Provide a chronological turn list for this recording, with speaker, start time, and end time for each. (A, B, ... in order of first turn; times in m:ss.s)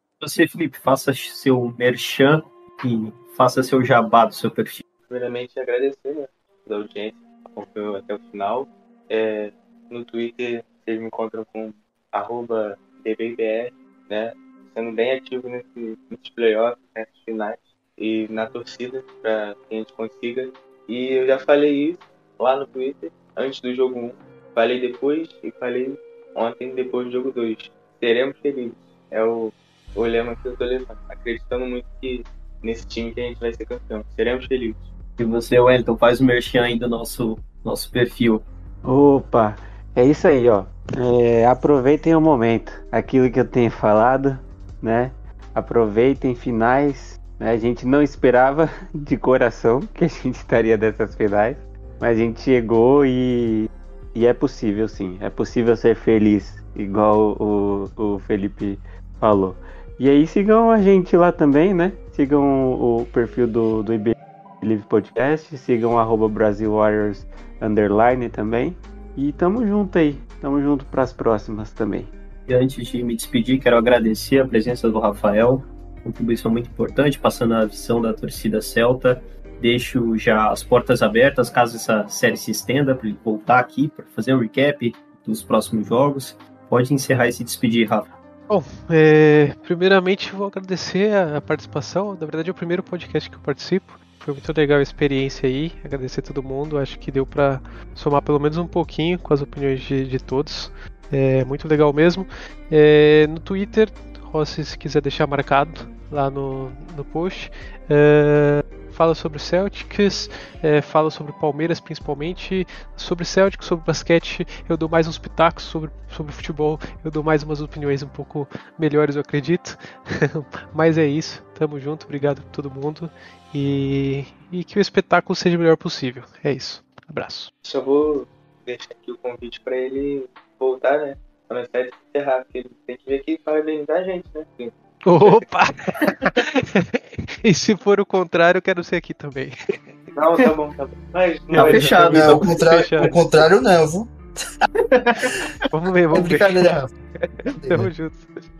0:00.2-0:04.8 A
0:05.1-0:34.8 B
0:35.2-0:38.4 A
0:38.8-1:12.1 C
1:12.5-1:28.1 A
1:28.5-2:07.5 D
2:07.6-2:15.4 B
2:15.0-2:19.9 D
2:20.1-2:21.8 B
2:21.5-2:23.2 A
2:21.6-2:23.2 D
2:21.6-2:24.1 E
2:24.9-2:25.2 A
2:25.7-2:28.4 D
2:26.1-2:26.9 E
2:27.4-2:27.9 E